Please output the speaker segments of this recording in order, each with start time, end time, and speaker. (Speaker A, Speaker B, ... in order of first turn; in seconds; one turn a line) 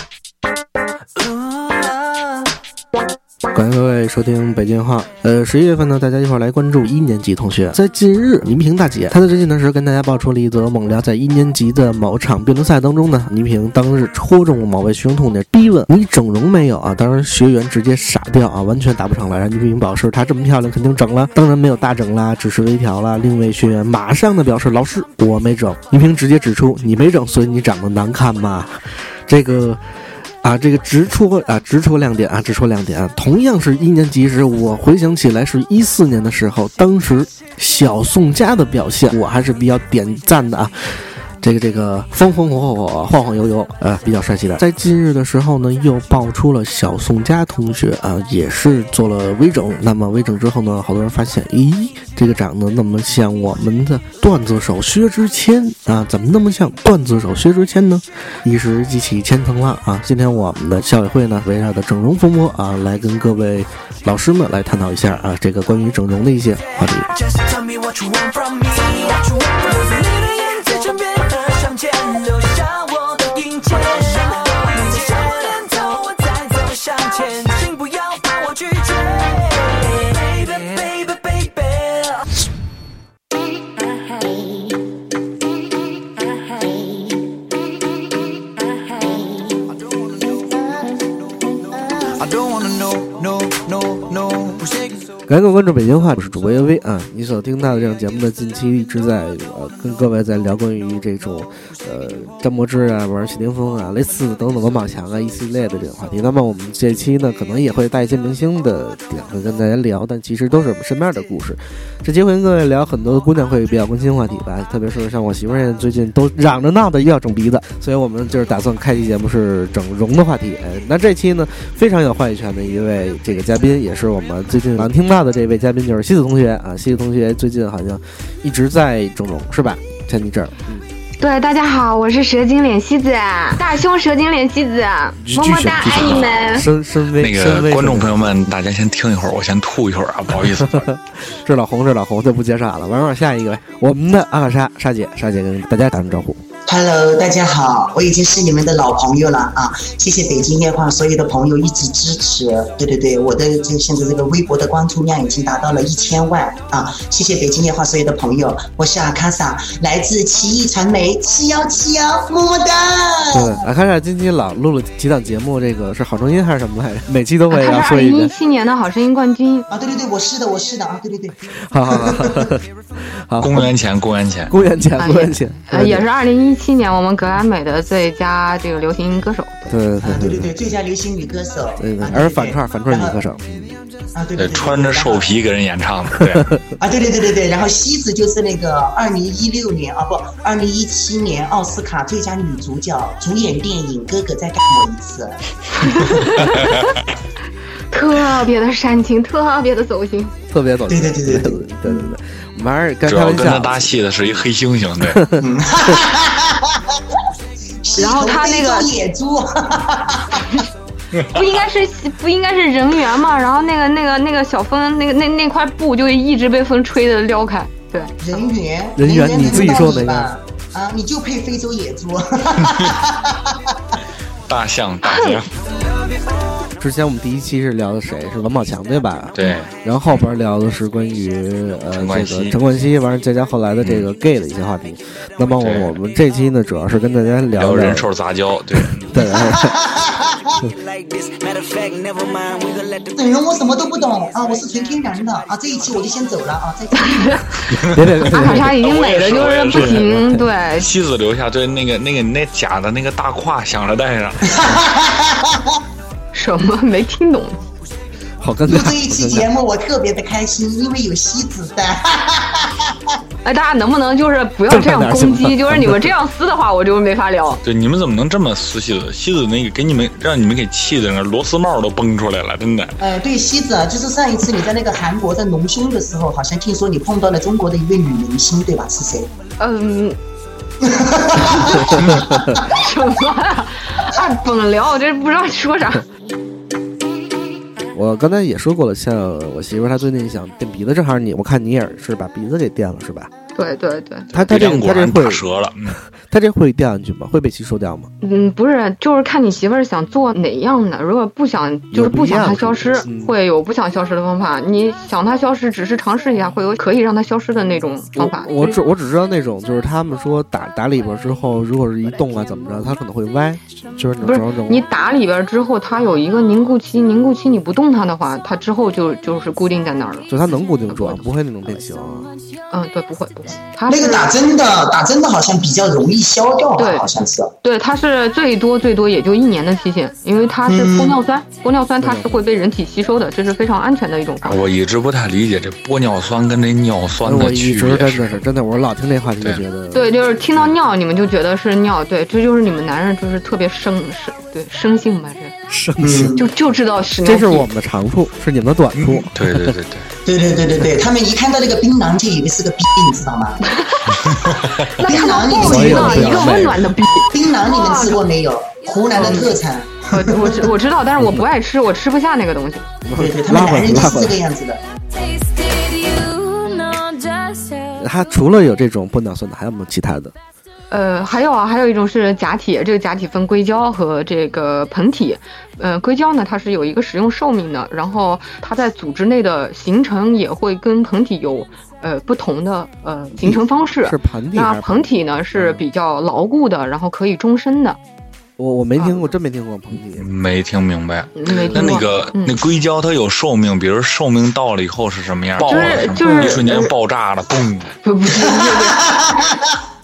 Speaker A: 3.5-67.1
Speaker B: 67.2-82.2
Speaker B: 92.2-94.9
Speaker A: 95.3-130.9
Speaker C: 131.2-136.7
Speaker A: 135.2-138.5
Speaker D: 137.2-140.8
Speaker A: 140.6-146.4
Speaker E: 146.7-163.6
Speaker A: 163.3-168.3
Speaker C: 167.5-169.7
Speaker E: 169.7-171.4
Speaker A: 171.6-173.7
Speaker E: 171.9-172.5
Speaker D: 173.4-174.5
Speaker A: 174.5-176.1
Speaker C: 175.0-179.8
Speaker A: 179.7-180.5
Speaker E: 180.0-183.2
Speaker A: 181.8-183.8
Speaker E: 184.1-185.4
Speaker D: 184.3-186.6
Speaker E: 186.8-196.5
Speaker C: 195.8-197.0
Speaker D: 196.5-196.8
Speaker C: 197.9-200.3
Speaker A: 200.5-204.4
Speaker E: 200.9-202.1
Speaker D: 203.1-205.2
Speaker A: 205.0-205.4
Speaker E: 205.4-206.8
Speaker E: 207.8-210.6
Speaker C: 208.0-208.9
Speaker C: 211.2-218.1
Speaker E: 218.2-223.5
Speaker A: 219.0-220.3
Speaker D: 224.5-225.5
Speaker C: 225.0-225.4
Speaker A: 226.8-238.1
Speaker D: 229.3-229.8
Speaker D: 231.9-232.6
Speaker D: 233.8-234.1
Speaker D: 235.6-235.9
Speaker D: 237.5-239.2
Speaker A: 239.1-239.8
Speaker E: 239.3-240.4
Speaker B: 241.5-242.9
Speaker E: 243.1-247.7
Speaker A: 247.7-248.7
Speaker D: 247.8-250.0
Speaker C: 248.3-250.9
Speaker A: 249.7-250.5
Speaker D: 250.8-254.6
Speaker E: 254.6-255.5
Speaker C: 256.3-257.6
Speaker A: 258.4-259.5
Speaker E: 258.6-262.9
Speaker C: 263.4-267.6
Speaker A: 264.7-266.1
Speaker D: 267.6-273.0
Speaker E: 273.0-279.3
Speaker C: 279.6-280.2
Speaker E: 280.8-282.6
Speaker A: 281.9-282.2
Speaker C: 282.5-286.1
Speaker A: 287.9-293.3
Speaker C: 293.5-294.3
Speaker A: 294.3-298.1
Speaker D: 294.4-296.0
Speaker C: 298.2-308.8
Speaker A: 301.9-303.3
Speaker A: 308.1-314.9
Speaker C: 314.2-320.3
Speaker A: 320.3-322.3
Speaker C: 320.9-321.2
Speaker C: 322.7-324.3
Speaker E: 323.9-327.5
Speaker C: 326.8-327.1
Speaker C: 327.6-334.6
Speaker E: 330.7-331.2
Speaker A: 332.0-332.4
Speaker D: 334.4-338.3
Speaker A: 337.2-340.7
Speaker C: 339.9-345.5
Speaker A: 345.7-346.3
Speaker E: 346.0-346.5
Speaker C: 346.4-347.7
Speaker A: 347.2-349.8
Speaker D: 348.9-350.1
Speaker E: 350.2-353.6
Speaker C: 353.6-358.2
Speaker D: 354.2-354.9
Speaker E: 355.0-356.6
Speaker A: 355.6-356.9
Speaker E: 357.3-360.7
Speaker A: 359.1-359.5
Speaker C: 359.1-359.5
Speaker C: 360.1-362.9
Speaker A: 361.2-361.4
Speaker A: 363.0-364.4
Speaker E: 363.1-364.8
Speaker F: 365.1-368.0
Speaker A: 367.9-370.3
Speaker C: 370.9-388.0
Speaker A: 383.4-385.8
Speaker A: 388.6-390.3
Speaker C: 388.9-389.3
Speaker D: 390.2-398.0
Speaker C: 391.4-392.6
Speaker C: 395.6-396.9
Speaker C: 398.0-399.1
Speaker E: 398.6-399.7